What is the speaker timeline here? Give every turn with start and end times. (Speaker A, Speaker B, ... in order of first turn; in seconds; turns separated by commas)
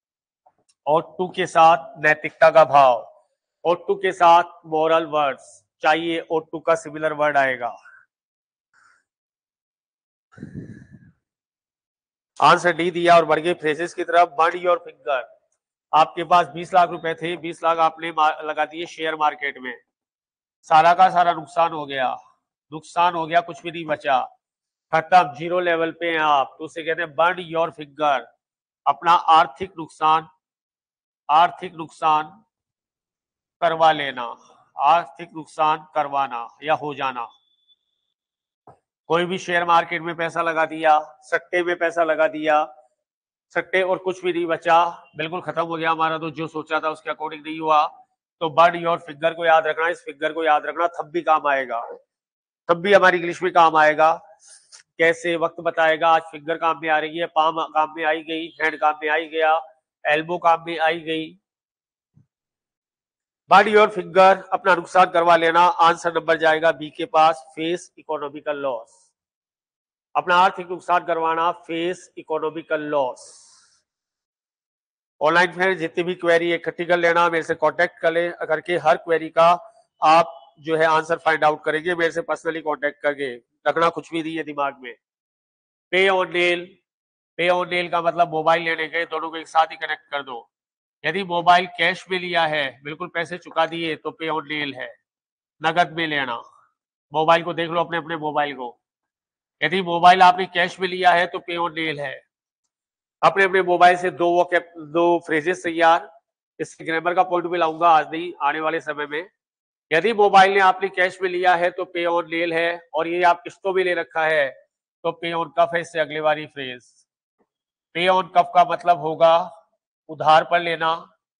Speaker A: 0.9-3.1, Speaker A: 3.6-7.7, Speaker A: 12.4-15.3, Speaker A: 15.9-19.8, Speaker A: 20.6-22.1, Speaker A: 22.7-24.2, Speaker A: 24.9-28.3, Speaker A: 28.9-30.3, Speaker A: 31.3-32.4, Speaker A: 33.6-37.3, Speaker A: 39.1-42.6, Speaker A: 43.5-51.8, Speaker A: 52.7-54.2, Speaker A: 55.0-61.4, Speaker A: 63.5-69.0, Speaker A: 70.2-73.4, Speaker A: 75.2-85.0, Speaker A: 85.9-86.8, Speaker A: 87.4-90.5, Speaker A: 91.0-94.9, Speaker A: 95.6-96.4, Speaker A: 97.1-98.8, Speaker A: 99.6-102.2, Speaker A: 103.2-106.0, Speaker A: 106.6-109.3, Speaker A: 109.9-116.9, Speaker A: 117.9-119.5, Speaker A: 120.1-121.0